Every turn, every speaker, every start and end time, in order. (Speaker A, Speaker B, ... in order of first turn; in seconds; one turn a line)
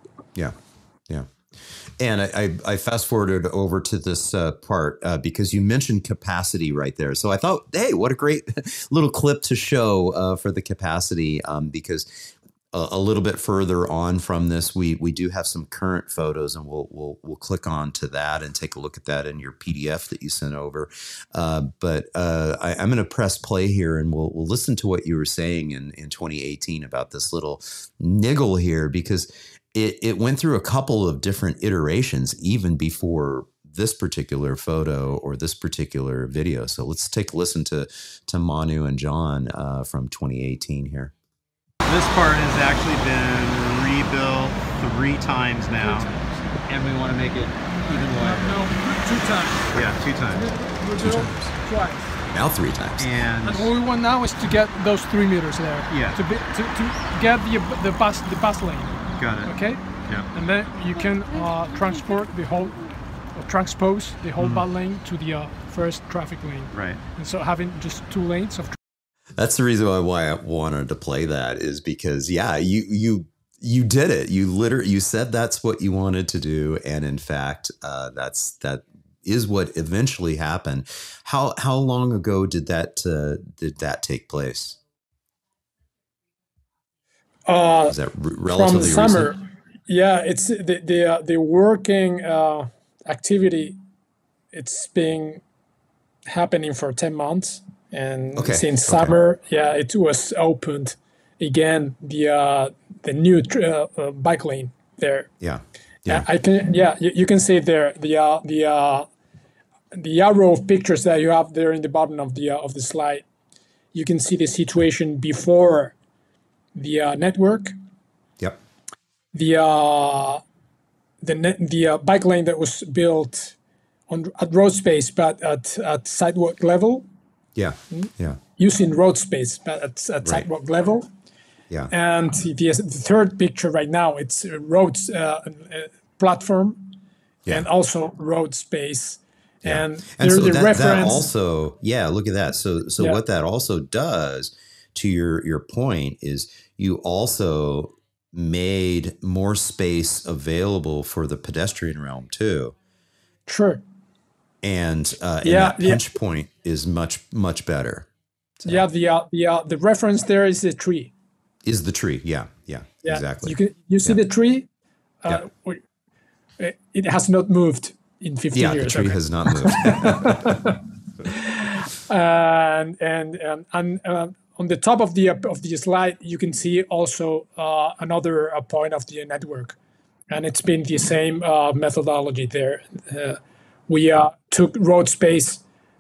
Speaker A: 2.0-41.1
Speaker B: 41.9-46.1
Speaker C: 45.9-46.2
Speaker B: 46.6-48.6
Speaker C: 48.2-52.0
Speaker B: 49.7-50.5
Speaker A: 51.0-51.3
Speaker A: 52.3-53.1
Speaker B: 53.0-53.7
Speaker C: 53.4-68.8
Speaker B: 55.9-56.2
Speaker B: 59.2-59.5
Speaker B: 66.7-67.0
Speaker A: 69.4-84.8
Speaker C: 87.5-88.0
Speaker A: 87.9-89.3
Speaker C: 88.5-93.8
Speaker C: 94.5-95.4
Speaker C: 96.3-105.3
Speaker A: 98.4-99.1
Speaker A: 105.4-106.3
Speaker C: 106.1-109.1
Speaker C: 109.9-113.3
Speaker C: 113.9-116.0
Speaker C: 116.7-117.7
Speaker C: 119.3-120.4
Speaker C: 121.2-123.5
Speaker C: 124.1-127.0
Speaker A: 127.5-128.4
Speaker C: 127.9-131.1
Speaker C: 131.9-136.9
Speaker C: 137.5-141.3
Speaker A: 139.6-152.7
Speaker C: 153.5-153.8
Speaker A: 154.6-158.1
Speaker C: 155.4-156.1
Speaker C: 158.7-161.1
Speaker A: 161.6-163.5
Speaker C: 163.0-164.7
Speaker C: 165.2-165.8
Speaker C: 166.6-179.8
Speaker A: 168.5-170.7
Speaker C: 180.3-185.6